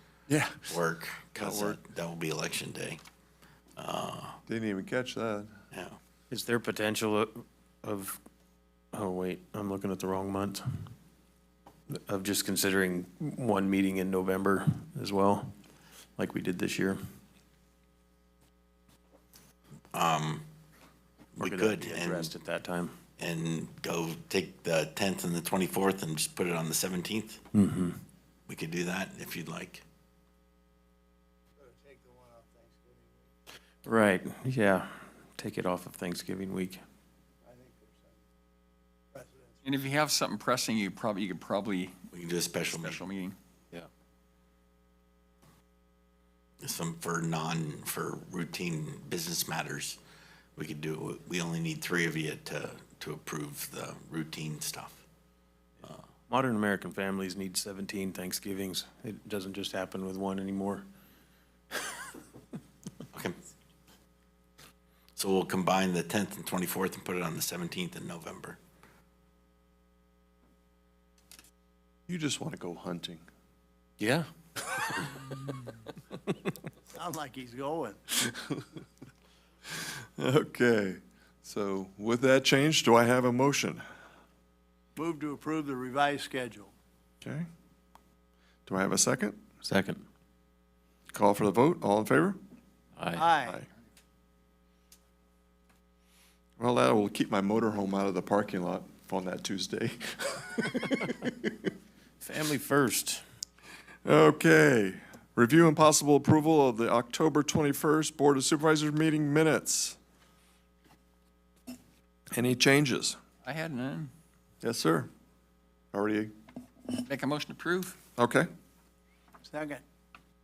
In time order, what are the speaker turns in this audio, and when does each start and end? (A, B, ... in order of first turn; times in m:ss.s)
0:00.3-0:00.7 A
0:00.7-0:03.0 B
0:01.3-0:01.8 A
0:03.8-0:04.4 B
0:04.5-0:05.6 A
0:05.7-0:06.0 B
0:06.3-0:08.2 C
0:08.9-0:10.9 C
0:11.9-0:15.5 C
0:16.2-0:17.0 C
0:19.9-0:20.4 B
0:21.4-0:22.3 B
0:21.4-0:23.0 C
0:23.2-0:27.4 B
0:27.5-0:28.0 C
0:28.5-0:29.8 B
0:31.6-0:33.3 D
0:33.8-0:36.8 C
0:37.4-0:38.2 D
0:39.1-0:39.6 D
0:39.6-0:42.0 E
0:42.1-0:43.0 B
0:42.6-0:43.4 E
0:46.6-0:50.0 B
0:50.6-0:55.0 B
0:56.3-1:00.8 C
1:01.7-1:02.0 C
1:05.2-1:08.6 B
1:12.1-1:13.2 A
1:14.0-1:14.3 C
1:16.9-1:18.1 D
1:19.7-1:23.8 A
1:25.0-1:26.7 D
1:27.2-1:27.5 A
1:28.7-1:29.4 A
1:29.6-1:30.0 C
1:31.1-1:32.4 A
1:33.0-1:33.2 C
1:33.1-1:33.6 D
1:33.4-1:33.7 A
1:36.6-1:41.5 A
1:42.2-1:43.2 C
1:44.0-1:50.0 A
1:52.3-1:53.2 A
1:53.4-1:54.1 E
1:54.6-1:55.1 A
1:55.9-1:56.3 A
1:56.9-1:58.0 E
1:58.2-1:58.5 A
1:59.4-1:59.8 D